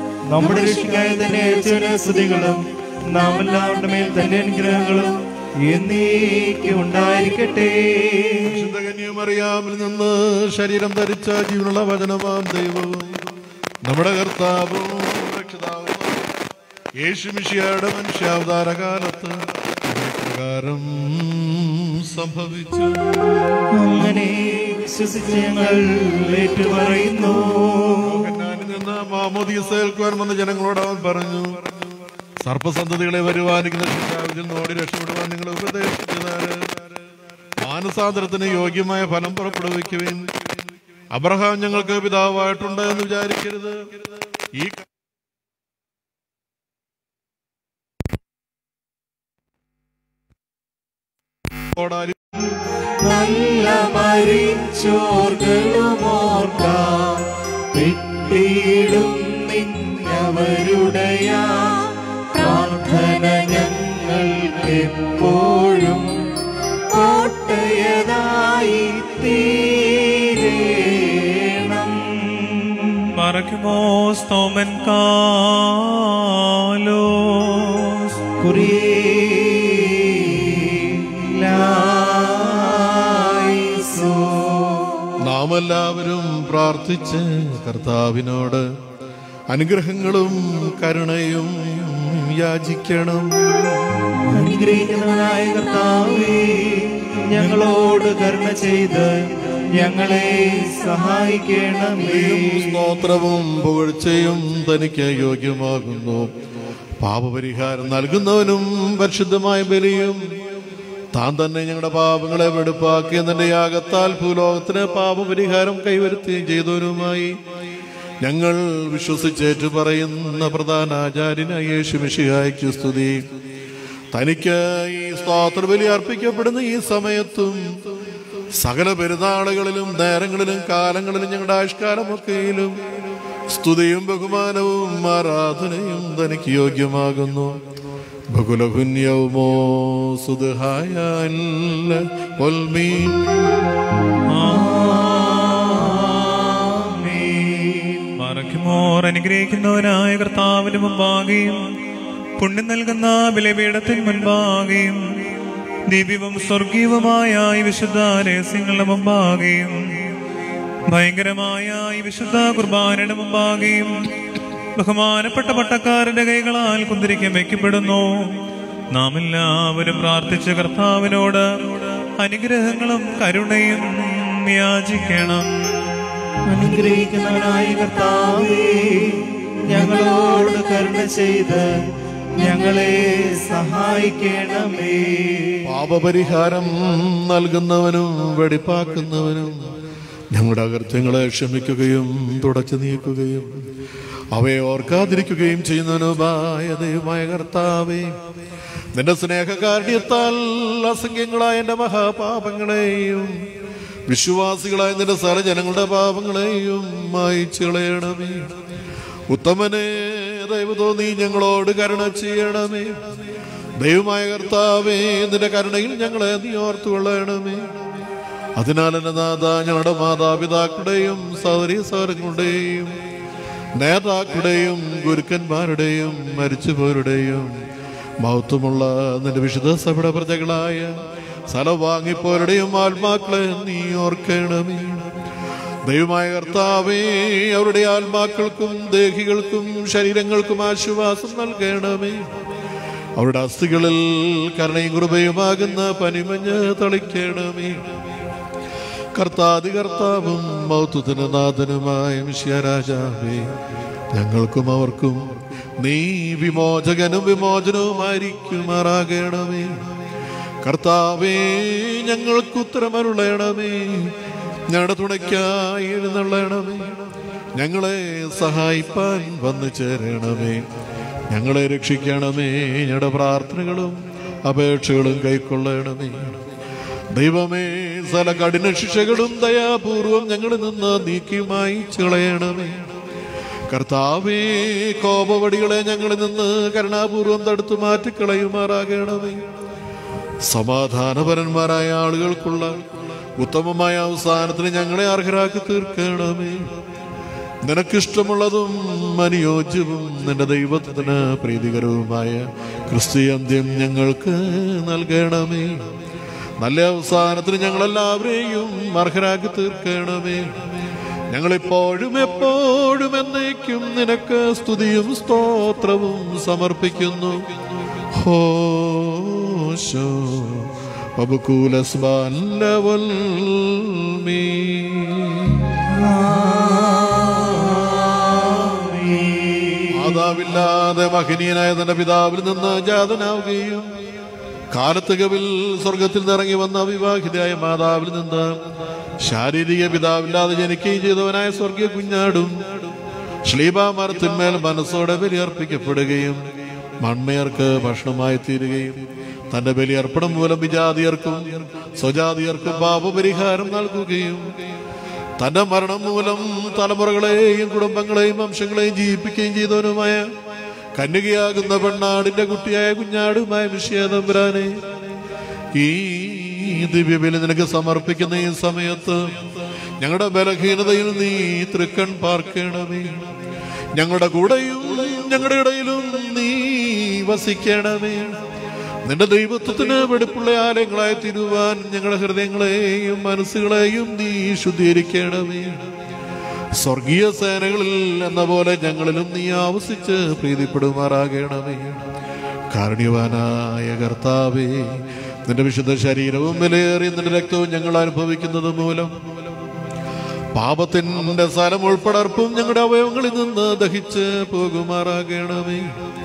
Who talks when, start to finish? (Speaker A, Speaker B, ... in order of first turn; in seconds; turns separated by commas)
Speaker A: 0.3-8.5, Speaker B: 8.4-13.2, Speaker B: 13.8-16.3, Speaker B: 17.0-23.0, Speaker A: 23.8-28.2, Speaker B: 28.0-31.6, Speaker B: 32.4-36.8, Speaker B: 37.6-40.3, Speaker B: 41.1-43.8, Speaker B: 44.5-44.8, Speaker B: 51.7-52.2, Speaker A: 53.0-66.1, Speaker A: 66.9-73.0, Speaker C: 73.1-78.1, Speaker A: 78.4-85.1, Speaker B: 85.2-88.7, Speaker B: 89.5-93.7, Speaker A: 94.3-99.2, Speaker A: 99.7-102.7, Speaker B: 102.0-106.3, Speaker B: 107.0-110.2, Speaker B: 111.1-117.3, Speaker B: 118.2-123.2, Speaker B: 124.1-127.6, Speaker B: 128.6-132.7, Speaker B: 133.5-137.5, Speaker B: 138.3-143.6, Speaker A: 144.4-148.1, Speaker C: 144.4-144.7, Speaker C: 148.2-151.6, Speaker C: 152.4-155.0, Speaker C: 155.9-159.8, Speaker C: 160.9-164.0, Speaker C: 164.8-168.3, Speaker C: 168.9-171.5, Speaker C: 172.2-176.0, Speaker A: 176.5-181.7, Speaker A: 182.4-185.6, Speaker B: 185.7-189.6, Speaker B: 190.3-193.5, Speaker B: 194.3-198.1, Speaker B: 198.9-203.3, Speaker B: 204.1-208.5, Speaker B: 209.3-212.9, Speaker B: 213.8-217.6, Speaker B: 218.6-222.9, Speaker B: 223.8-227.5, Speaker B: 228.2-230.9, Speaker B: 231.5-235.1, Speaker B: 235.8-242.2, Speaker B: 243.2-247.8, Speaker B: 249.1-253.5, Speaker B: 254.1-255.2, Speaker B: 255.8-259.7, Speaker B: 260.6-264.1, Speaker B: 264.7-266.9, Speaker B: 267.6-270.6, Speaker B: 271.3-276.4, Speaker B: 277.1-282.9, Speaker B: 283.7-289.4, Speaker B: 290.5-292.8, Speaker B: 293.4-296.6, Speaker B: 297.6-305.8, Speaker B: 306.6-310.4, Speaker B: 311.3-317.4, Speaker B: 318.1-325.7, Speaker A: 325.9-329.9, Speaker B: 329.9-333.9, Speaker B: 334.7-338.6, Speaker B: 339.2-342.6, Speaker B: 343.4-346.4, Speaker B: 347.0-349.0, Speaker B: 349.5-354.4, Speaker B: 355.4-360.3, Speaker B: 360.9-364.7, Speaker B: 365.8-369.2, Speaker B: 370.0-373.2, Speaker B: 373.9-378.3, Speaker B: 379.1-385.8, Speaker B: 386.8-392.0, Speaker B: 392.7-399.1, Speaker B: 400.5-405.9